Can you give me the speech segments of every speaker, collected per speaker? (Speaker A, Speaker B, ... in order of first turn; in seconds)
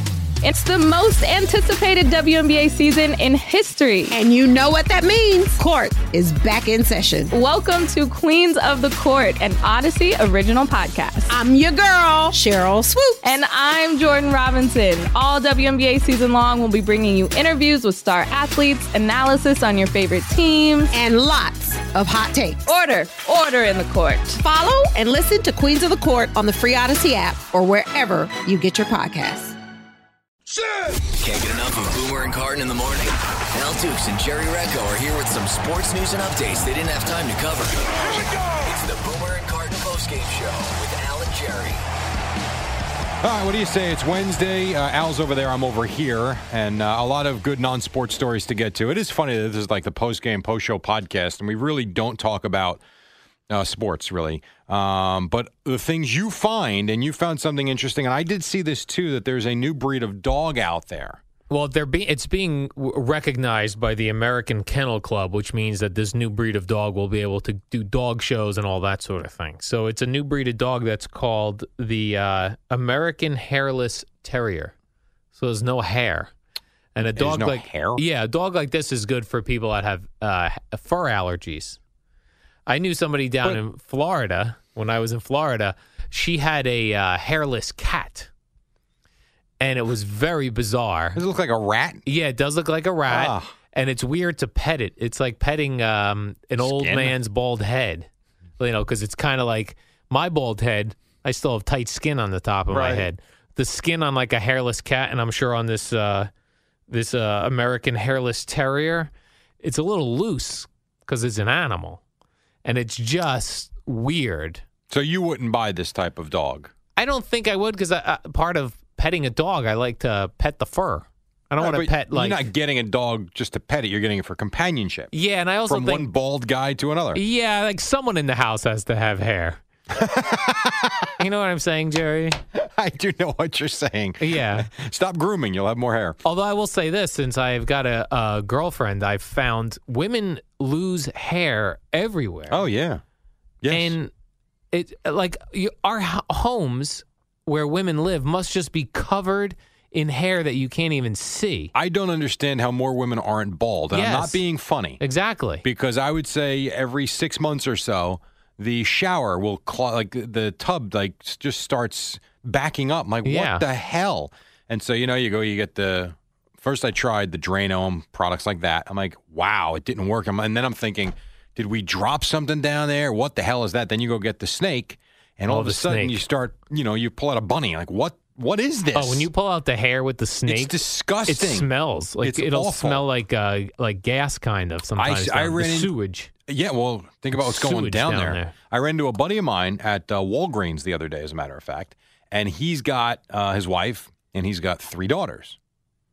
Speaker A: 0.4-4.1, 7.3-11.3, 13.2-20.9, 22.7-24.4
Speaker B: 4.1-7.3, 11.3-13.4, 20.9-22.7, 24.4-29.6
Speaker C: 31.1-41.8
Speaker D: 43.2-52.8, 53.5-61.2, 77.2-78.0, 91.2-92.0, 93.1-93.5, 96.6-97.2, 102.7-103.0, 114.9-116.7, 121.6-125.1, 125.7-127.2, 129.9-131.1, 132.5-136.2, 142.5-143.0, 143.6-143.9, 151.7-155.0, 155.6-179.3, 180.5-181.7, 182.2-183.0, 185.0-185.9, 186.5-195.6
Speaker E: 61.5-74.7, 75.3-76.3, 76.9-81.8, 82.7-88.3, 89.6-91.2, 92.0-106.3, 106.9-112.0, 112.6-114.6, 117.0-122.4, 125.1-126.1, 127.1-129.6, 131.2-132.4, 134.2-134.7, 136.2-142.6, 143.7-144.1, 144.7-151.7, 153.9-154.4, 155.0-155.6, 163.2-163.6, 175.5-176.2, 178.9-186.3, 187.3-188.5